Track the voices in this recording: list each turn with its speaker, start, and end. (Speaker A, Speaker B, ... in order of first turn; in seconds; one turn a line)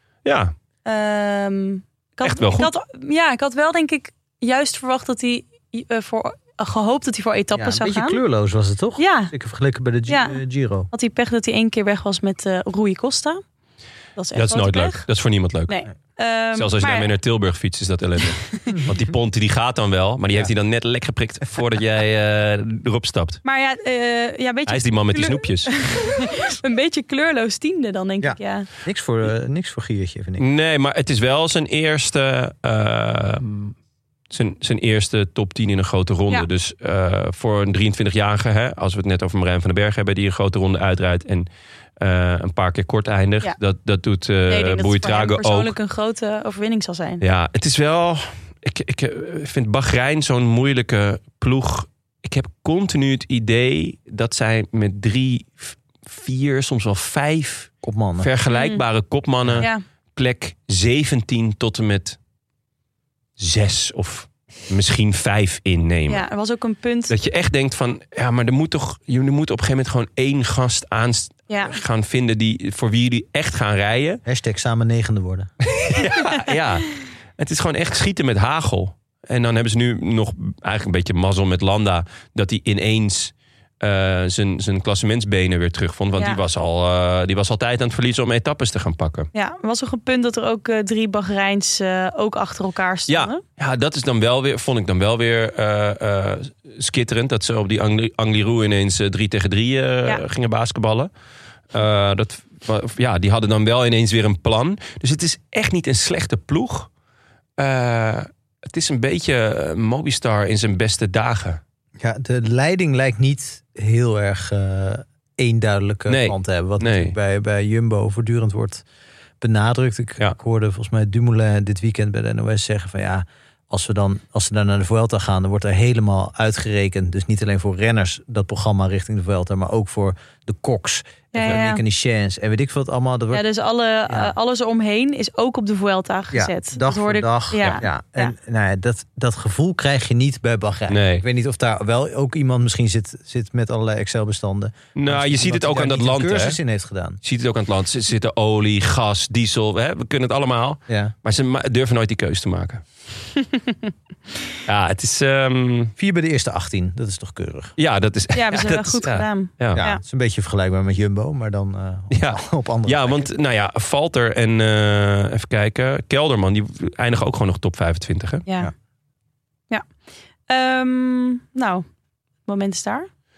Speaker A: 0.2-0.5
Speaker B: 0.8-8.2
Speaker A: 2.2-2.7
Speaker C: 7.5-10.9
Speaker B: 9.0-9.3
Speaker B: 10.1-10.4
Speaker B: 10.9-13.4
Speaker B: 14.2-15.0
Speaker A: 14.3-15.8
Speaker B: 15.7-17.1
Speaker A: 16.5-23.4
Speaker C: 18.7-18.9
Speaker B: 23.4-28.7
Speaker A: 24.7-25.8
Speaker C: 28.2-30.4
Speaker A: 30.4-33.7
Speaker A: 34.3-41.5
Speaker A: 42.0-45.7
Speaker B: 44.5-47.2
Speaker A: 47.2-62.2
Speaker C: 57.8-58.3
Speaker B: 58.5-58.8
Speaker A: 63.4-66.2
Speaker B: 66.1-67.2
Speaker A: 67.1-74.2
Speaker B: 71.5-71.8
Speaker C: 74.2-75.5
Speaker A: 75.7-89.3
Speaker B: 86.2-86.4
Speaker B: 89.3-93.4
Speaker A: 93.1-101.1
Speaker A: 101.7-106.9
Speaker A: 107.6-111.6
Speaker C: 112.0-118.8
Speaker A: 116.1-117.1
Speaker C: 119.4-133.4
Speaker B: 131.3-131.8
Speaker B: 133.3-138.3
Speaker C: 134.1-134.3
Speaker C: 136.3-147.2
Speaker A: 140.9-141.2
Speaker A: 144.9-146.6
Speaker A: 147.2-152.8
Speaker C: 150.9-151.1
Speaker A: 154.6-155.9
Speaker C: 156.0-157.7
Speaker A: 157.8-159.8
Speaker B: 158.3-160.0
Speaker C: 159.7-163.3
Speaker A: 162.1-168.4
Speaker B: 168.5-168.7
Speaker B: 170.5-171.8
Speaker B: 172.4-173.1